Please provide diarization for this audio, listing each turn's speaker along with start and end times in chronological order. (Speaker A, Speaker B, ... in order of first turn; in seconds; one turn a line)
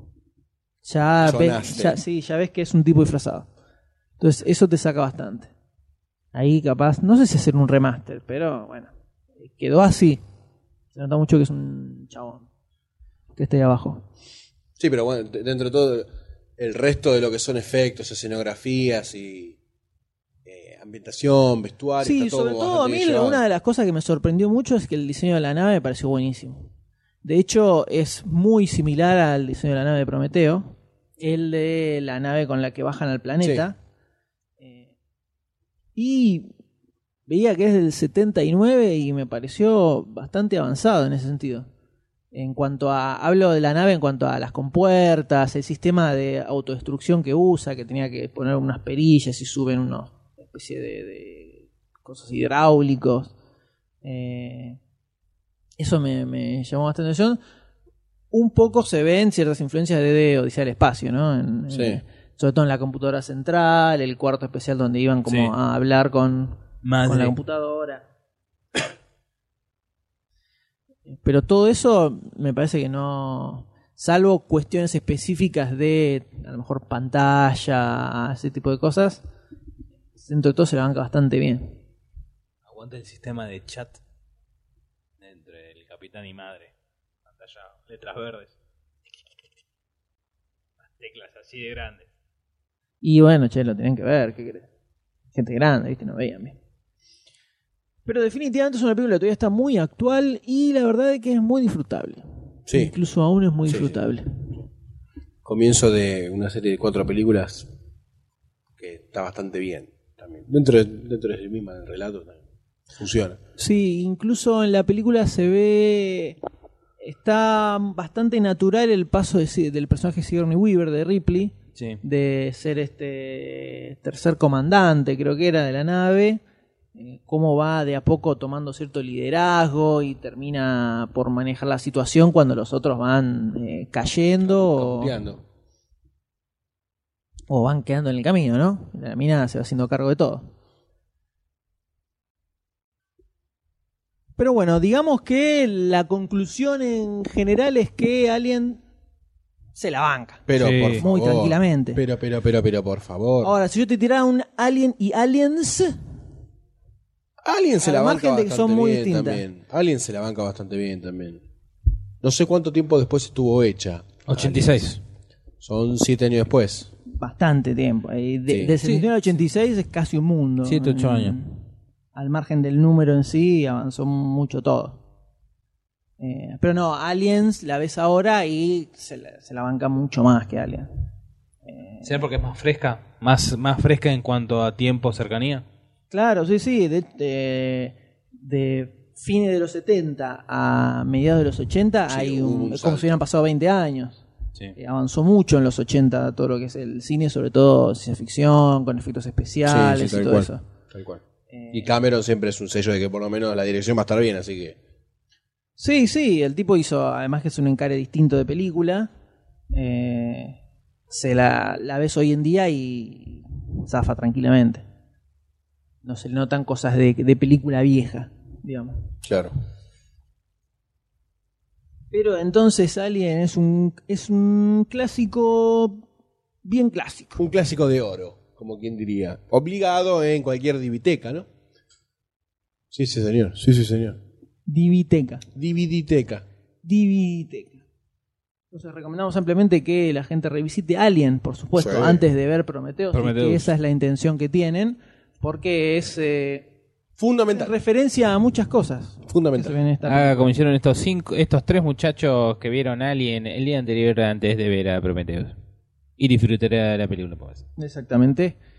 Speaker A: 0.8-3.5
Speaker B: 1.2-2.0
Speaker A: 4.2-5.5
Speaker A: 6.3-10.2
Speaker A: 10.9-12.5
Speaker A: 13.4-14.0
Speaker B: 14.8-16.1
Speaker B: 16.6-19.6
Speaker B: 20.4-23.4
Speaker A: 22.0-26.7
Speaker A: 27.2-33.8
Speaker B: 33.4-33.7
Speaker A: 34.6-34.9
Speaker A: 36.0-36.5
Speaker A: 37.3-41.7
Speaker A: 42.3-53.3
Speaker A: 54.0-54.8
Speaker A: 55.8-57.4
Speaker A: 58.3-68.1
Speaker B: 61.7-62.0
Speaker C: 65.3-65.5
Speaker C: 66.8-67.3
Speaker A: 71.2-79.2
Speaker A: 80.2-81.8
Speaker C: 82.7-84.0
Speaker C: 85.2-86.7
Speaker C: 87.3-88.5
Speaker C: 90.8-92.1
Speaker A: 93.0-94.7
Speaker A: 95.3-96.6
Speaker A: 98.1-104.3
Speaker B: 102.7-102.9
Speaker B: 103.7-104.0
Speaker B: 105.5-107.7
Speaker B: 108.8-112.4
Speaker B: 113.0-113.4
Speaker A: 113.6-116.4
Speaker A: 117.0-126.4
Speaker A: 127.0-135.2
Speaker B: 134.4-135.4
Speaker A: 137.5-140.5
Speaker A: 144.4-148.8
Speaker A: 149.8-150.5
Speaker B: 150.5-153.5
Speaker C: 150.6-151.0
Speaker A: 151.0-152.0
Speaker A: 153.4-156.0
Speaker B: 157.4-161.4
Speaker A: 157.8-159.4
Speaker B: 162.2-164.9
Speaker C: 164.3-165.0
Speaker B: 165.6-166.9
Speaker A: 167.2-171.6
Speaker B: 168.5-168.8
Speaker C: 168.8-169.1
Speaker C: 170.7-171.4
Speaker A: 172.2-175.0
Speaker A: 176.2-180.9
Speaker A: 181.7-182.2
Speaker C: 182.0-185.7
Speaker A: 186.1-194.2
Speaker B: 192.1-193.2
Speaker A: 194.8-200.6
Speaker B: 199.7-201.2
Speaker A: 201.5-201.9
Speaker B: 201.7-204.8
Speaker A: 205.8-209.1
Speaker A: 209.7-214.8
Speaker A: 216.0-219.1
Speaker B: 219.2-219.5
Speaker A: 222.1-226.0
Speaker A: 226.6-227.4
Speaker B: 227.4-231.5
Speaker B: 232.9-234.2
Speaker A: 234.7-235.4
Speaker B: 235.6-236.4
Speaker A: 236.8-237.8
Speaker A: 238.7-246.7
Speaker B: 241.8-242.2
Speaker C: 243.1-243.7
Speaker B: 247.2-247.7
Speaker A: 247.5-250.5
Speaker B: 249.2-249.7
Speaker C: 250.1-255.6
Speaker C: 256.2-257.6
Speaker A: 257.8-258.6